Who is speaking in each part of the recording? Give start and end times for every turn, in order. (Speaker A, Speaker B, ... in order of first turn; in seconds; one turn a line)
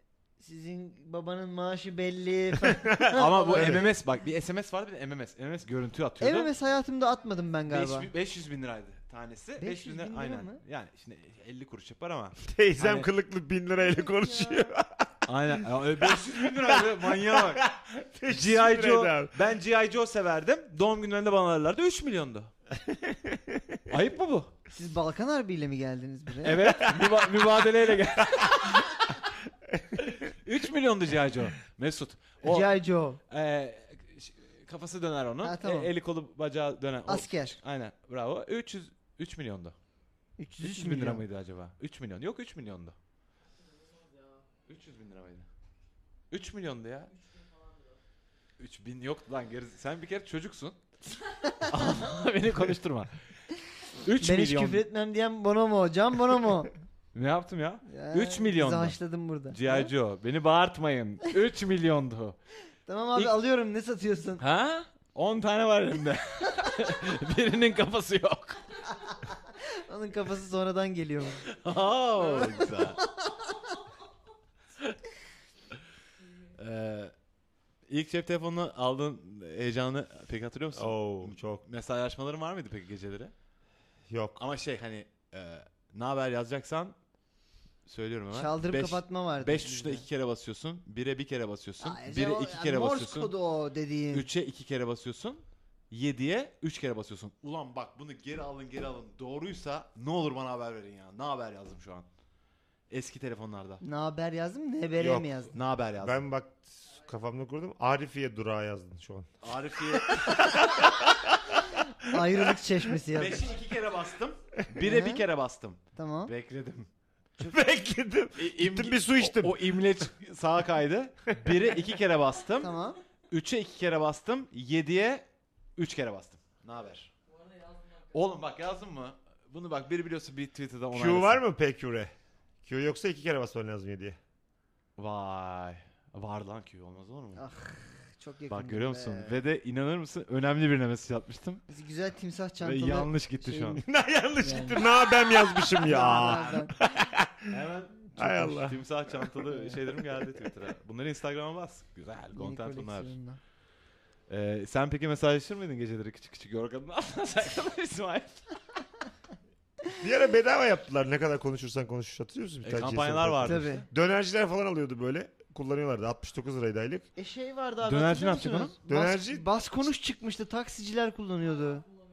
Speaker A: 0.4-3.8
Speaker B: 2.6-3.9
Speaker C: 3.1-6.5
Speaker A: 6.2-8.1
Speaker C: 7.7-13.1
Speaker A: 9.6-10.6
Speaker B: 12.4-15.3
Speaker C: 15.3-17.7
Speaker B: 16.0-19.3
Speaker C: 18.3-22.5
Speaker B: 22.8-23.8
Speaker C: 23.9-24.5
Speaker A: 24.7-26.8
Speaker C: 26.4-29.2
Speaker C: 30.0-32.7
Speaker A: 32.4-33.2
Speaker C: 33.3-39.8
Speaker A: 35.4-35.9
Speaker A: 37.1-37.6
Speaker A: 40.4-41.2
Speaker C: 40.6-43.0
Speaker C: 44.6-45.5
Speaker C: 46.3-47.1
Speaker C: 48.6-50.8
Speaker C: 51.6-53.1
Speaker C: 54.0-54.8
Speaker A: 54.2-56.7
Speaker C: 57.1-59.0
Speaker A: 57.9-59.9
Speaker C: 59.5-62.4
Speaker A: 62.9-64.4
Speaker C: 64.4-68.8
Speaker A: 69.8-71.4
Speaker C: 71.5-73.0
Speaker A: 72.2-73.2
Speaker C: 76.5-77.1
Speaker C: 77.9-83.3
Speaker B: 80.7-81.6
Speaker B: 84.1-84.4
Speaker C: 84.4-86.9
Speaker C: 87.8-93.3
Speaker A: 88.3-90.0
Speaker A: 91.8-94.3
Speaker C: 94.1-102.1
Speaker C: 102.9-103.8
Speaker A: 103.8-105.5
Speaker B: 105.0-105.5
Speaker C: 105.5-106.2
Speaker B: 106.0-109.3
Speaker C: 109.4-110.6
Speaker B: 109.9-111.5
Speaker A: 112.0-113.5
Speaker C: 113.1-116.9
Speaker A: 114.8-115.2
Speaker A: 116.0-116.3
Speaker B: 117.4-120.0
Speaker C: 118.4-122.7
Speaker A: 122.6-123.0
Speaker C: 123.3-125.2
Speaker C: 125.8-127.1
Speaker C: 128.1-131.4
Speaker B: 130.9-132.1
Speaker B: 132.6-134.2
Speaker C: 135.0-137.4
Speaker A: 137.3-139.4
Speaker C: 138.5-141.6
Speaker A: 141.7-143.8
Speaker C: 142.6-143.8
Speaker B: 143.8-147.5
Speaker A: 144.4-144.8
Speaker A: 145.8-146.7
Speaker C: 146.1-146.4
Speaker C: 147.5-153.1
Speaker B: 148.2-149.4
Speaker A: 152.3-153.4
Speaker C: 154.3-158.6
Speaker B: 160.0-167.1
Speaker C: 162.6-163.9
Speaker A: 163.4-163.8
Speaker A: 167.2-171.8
Speaker C: 167.8-168.8
Speaker B: 168.8-169.4